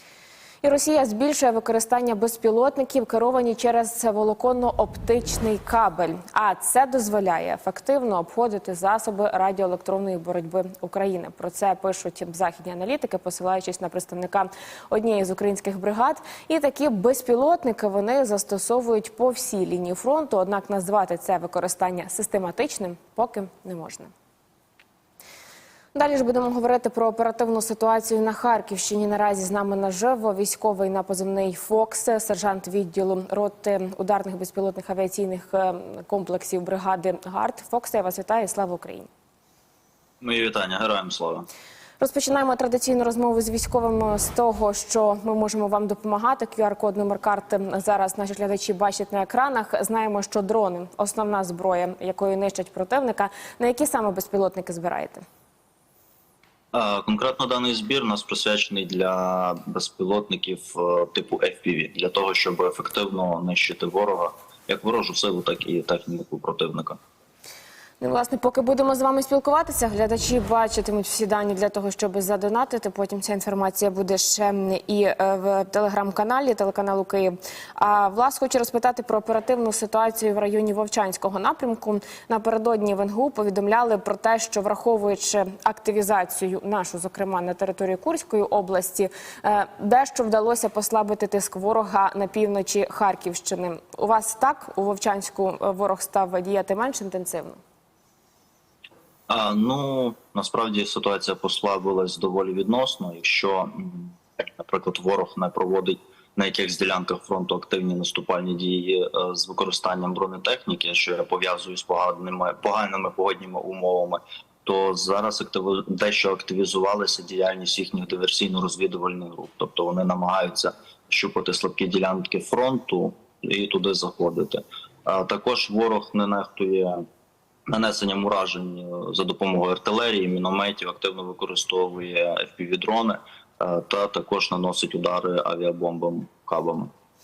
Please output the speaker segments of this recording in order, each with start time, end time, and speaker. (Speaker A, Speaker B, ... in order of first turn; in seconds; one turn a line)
Speaker A: 0.6-24.1
Speaker A: 25.9-39.1
Speaker B: 40.2-41.5
Speaker A: 42.0-55.2
Speaker B: 56.7-67.0
Speaker A: 68.0-97.6
Speaker B: 99.3-127.0
Speaker B: 127.7-136.9